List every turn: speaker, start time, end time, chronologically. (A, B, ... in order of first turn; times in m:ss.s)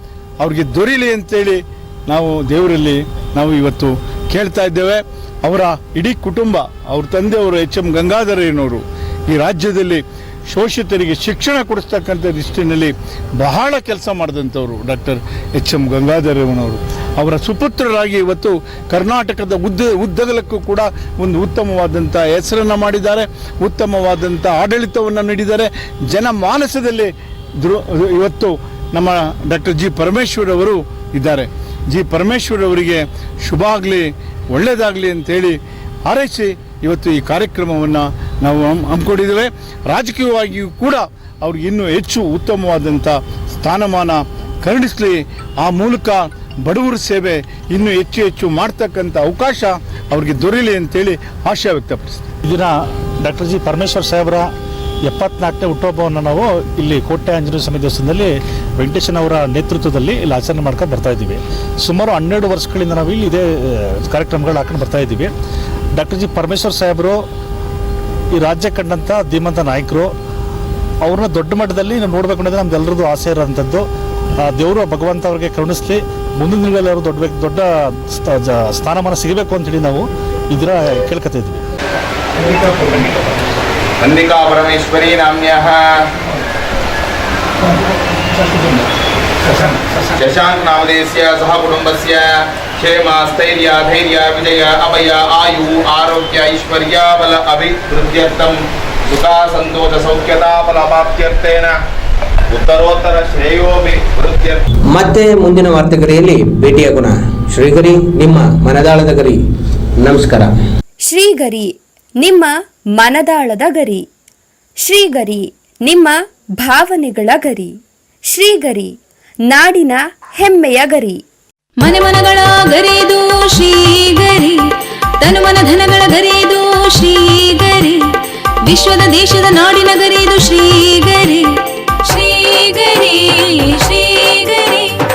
0:00.4-0:52.2 A
0:52.4-0:54.5 B
0:55.0-1:05.3 B
1:05.9-1:07.2 B
1:08.3-1:10.1 B
1:11.0-1:13.8 B
1:14.4-1:21.6 B
1:22.6-1:22.9 B
1:24.0-1:26.1 C
1:30.1-1:41.8 C
1:42.5-1:44.6 C
1:44.9-1:49.4 D
1:50.0-1:50.6 D
1:51.1-1:54.0 E
1:54.8-1:57.8 E
1:58.3-1:59.0 E
1:59.5-2:01.2 E
2:01.8-2:04.6 F
2:05.2-2:08.0 F
2:08.6-2:11.5 F
2:12.0-2:15.0 F